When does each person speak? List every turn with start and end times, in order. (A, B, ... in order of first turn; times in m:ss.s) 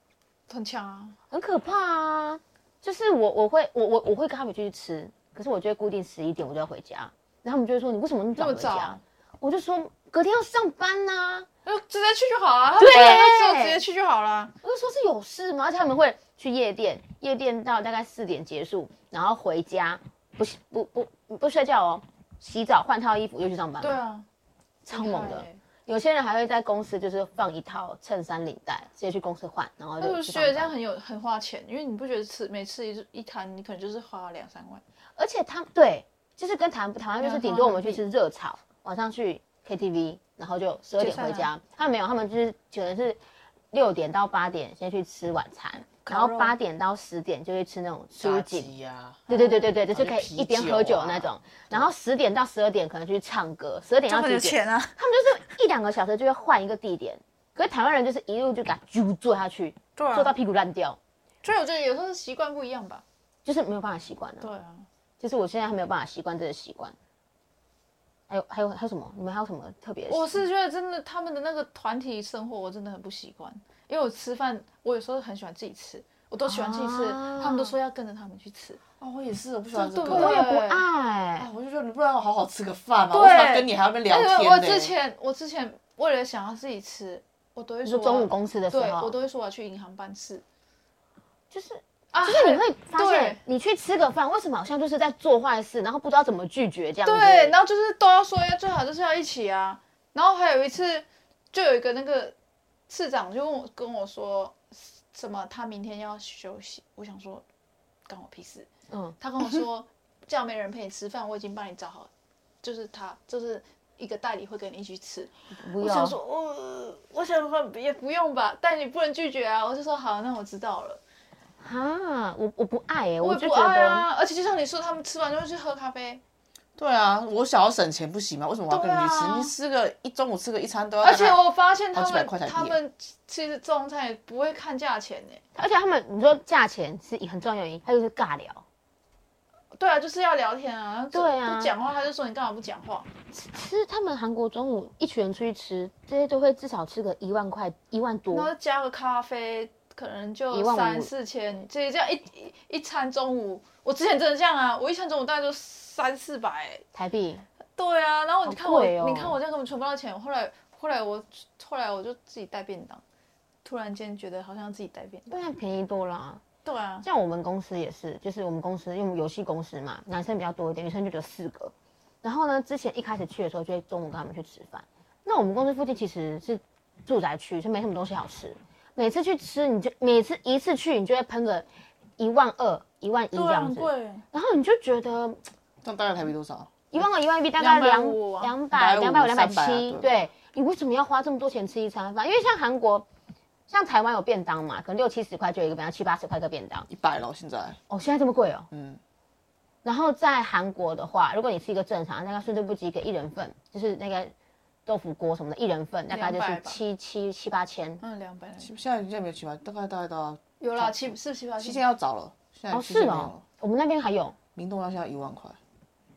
0:00.5-0:01.2 A
0:01.3-0:11.5 B
0:08.4-0:09.0 A
0:11.6-0:14.5 A
0:12.8-0:13.8 B
0:14.6-0:24.0 B
0:23.8-0:24.2 A
0:24.8-0:30.7 B
0:24.9-0:25.6 A
0:30.0-0:34.8 A
0:35.2-0:43.2 B
0:37.2-0:38.0 A
0:41.0-0:41.5 A
0:43.7-0:48.7 B
0:46.0-0:46.6 A
0:48.2-0:49.2 C
0:49.3-0:49.7 A
0:49.3-1:01.0 B
0:49.9-0:51.9 C
0:54.1-0:55.0 A
1:00.0-1:00.3 A
1:01.4-1:03.0 A
1:03.4-1:04.5 B
1:04.4-1:04.8 A
1:05.2-1:06.9 B
1:08.3-1:10.4 B
1:10.1-1:18.8 A
1:16.5-1:17.7 B
1:19.0-1:20.4 C
1:19.7-1:20.9 A
1:20.1-1:21.5 B
1:21.4-1:24.9 C
1:23.1-1:30.4 A
1:27.8-1:29.1 B
1:31.5-1:37.6 B
1:32.1-1:33.4 A
1:37.0-1:42.3 A
1:42.9-1:47.4 A
1:48.1-1:48.7 A
1:48.9-1:49.2 B
1:49.2-1:52.1 A
1:52.6-2:01.0 A
1:55.5-1:56.2 B
2:01.6-2:04.1 B
2:03.2-2:06.2 A
2:06.8-2:12.8 C
2:08.7-2:09.5 A
2:11.0-2:15.4 A
2:15.6-2:18.6 B
2:19.7-2:23.1 A
2:21.1-2:21.7 B
2:23.3-2:28.5 B
2:28.3-2:36.8 A
2:30.5-2:31.1 B
2:36.9-2:37.4 B
2:37.8-2:43.0 A
2:38.4-2:39.4 B
2:43.6-2:45.3 A
2:45.3-2:46.4 B
2:46.6-2:47.0 A
2:47.0-3:01.6 B
3:02.2-3:05.4 B
3:03.3-3:04.2 A
3:05.8-3:06.7 C
3:06.9-3:13.0 B
3:07.6-3:08.5 A
3:08.7-3:10.2 C
3:13.7-3:16.9 B
3:16.9-3:17.8 C
3:17.9-3:18.7 B
3:18.7-3:19.0 C
3:19.8-3:24.3 B
3:24.8-3:28.0 B
3:26.1-3:26.8 A
3:28.0-3:28.7 A
3:28.6-3:33.4 C
3:30.6-3:31.8 A
3:32.7-3:34.4 B
3:34.6-3:35.6 C